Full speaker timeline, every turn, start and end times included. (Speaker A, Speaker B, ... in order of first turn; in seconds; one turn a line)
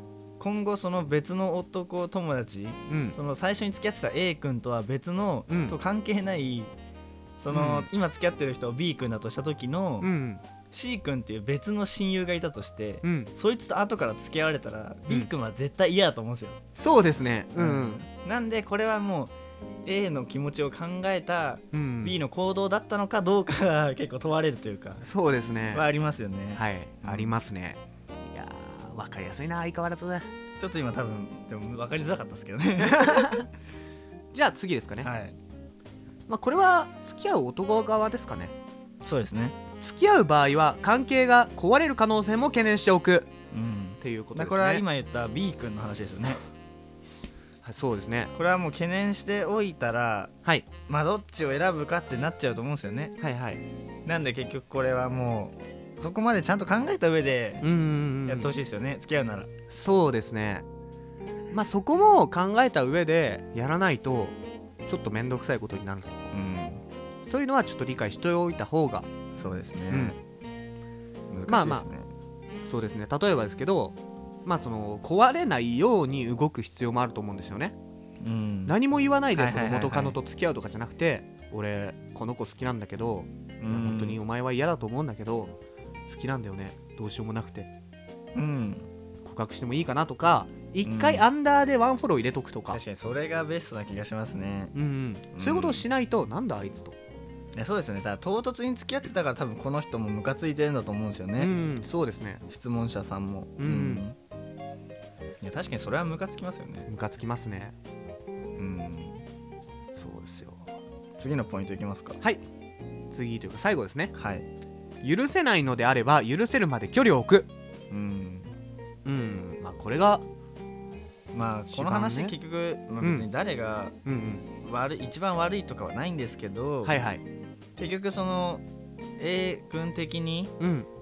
Speaker A: 0.4-6.7
Speaker B: 2.9-3.1
Speaker B: 5.5-5.8
Speaker A: 7.4-10.1
Speaker B: 7.5-7.9
Speaker B: 10.0-10.4
Speaker A: 10.7-16.6
Speaker B: 13.0-13.3
Speaker B: 16.8-18.0
Speaker A: 17.5-19.3
Speaker A: 19.8-25.0
Speaker B: 21.7-22.1
Speaker B: 25.0-25.9
Speaker A: 25.7-27.4
Speaker B: 26.5-30.3
Speaker A: 30.6-33.5
Speaker B: 32.9-33.5
Speaker B: 34.3-35.1
Speaker A: 35.0-35.4
Speaker B: 36.3-38.5
Speaker A: 39.0-39.5
Speaker B: 39.8-43.3
Speaker A: 43.5-46.4
Speaker B: 44.0-44.8
Speaker B: 47.6-48.3
Speaker A: 48.3-50.3
Speaker A: 50.9-53.1
Speaker B: 53.2-53.6
Speaker A: 54.0-57.6
Speaker B: 57.6-58.5
Speaker A: 58.2-59.5
Speaker B: 59.7-60.6
Speaker B: 61.5-66.3
Speaker A: 66.3-66.8
Speaker B: 67.2-69.1
Speaker A: 69.3-70.2
Speaker B: 69.9-70.2
Speaker A: 71.3-72.1
Speaker B: 71.5-71.8
Speaker B: 72.6-77.8
Speaker A: 78.2-78.8
Speaker B: 78.7-85.5
Speaker A: 79.3-80.2
Speaker A: 83.6-84.2
Speaker B: 86.1-87.7
Speaker A: 88.3-88.9
Speaker B: 89.2-92.8
Speaker A: 90.8-91.2
Speaker A: 92.7-94.7
Speaker B: 94.7-97.0
Speaker A: 95.3-95.8
Speaker A: 97.5-101.5
Speaker B: 101.4-102.4
Speaker A: 102.5-104.2
Speaker B: 103.6-104.0
Speaker A: 105.4-106.9
Speaker B: 106.8-107.7
Speaker A: 108.6-109.2
Speaker B: 109.9-110.7
Speaker A: 111.2-112.2
Speaker B: 113.1-114.1
Speaker A: 114.1-114.5
Speaker B: 115.0-117.5
Speaker A: 117.9-118.5
Speaker B: 119.0-120.2
Speaker A: 121.3-123.9
Speaker B: 121.7-122.3
Speaker B: 123.0-123.3
Speaker B: 124.0-124.4
Speaker A: 124.6-127.0
Speaker B: 126.8-127.2
Speaker A: 127.8-128.6
Speaker A: 129.2-130.5
Speaker B: 130.6-130.9